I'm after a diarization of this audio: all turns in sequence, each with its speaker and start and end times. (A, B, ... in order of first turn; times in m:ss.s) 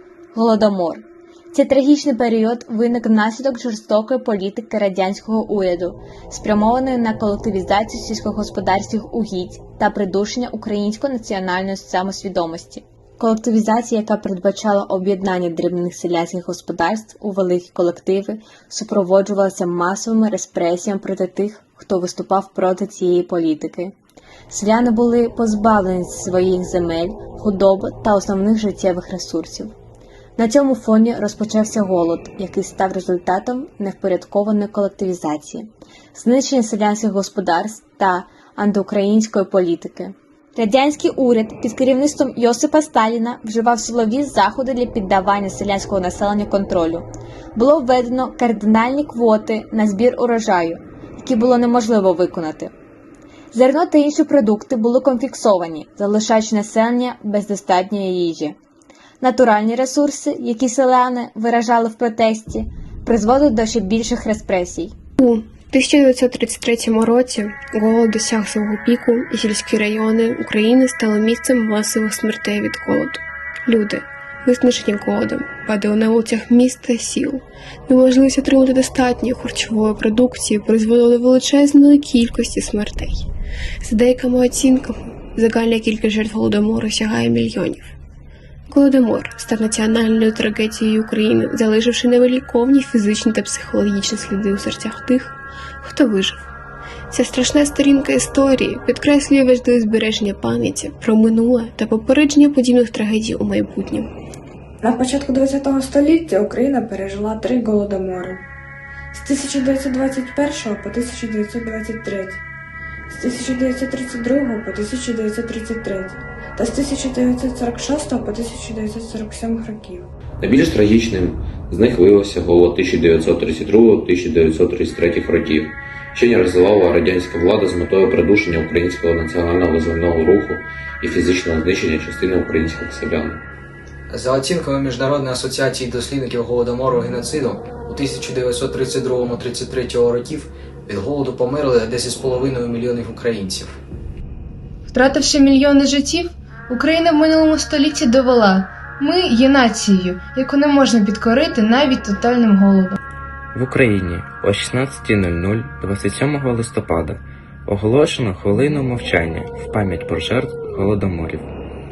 0:00.3-0:23.9 A
0:24.5-0:29.7 A
0:30.4-0:52.7 A
0:53.5-0:58.6 A
0:59.2-1:04.9 A
1:05.2-1:23.3 B
1:23.8-1:27.9 B
1:28.7-1:36.4 B
1:37.1-1:44.1 B
1:44.8-1:48.4 C
1:49.1-1:52.4 C
1:53.1-2:00.1 C
2:00.4-2:13.4 D
2:14.1-2:23.8 E
2:24.9-2:33.0 F
2:33.5-2:41.5 G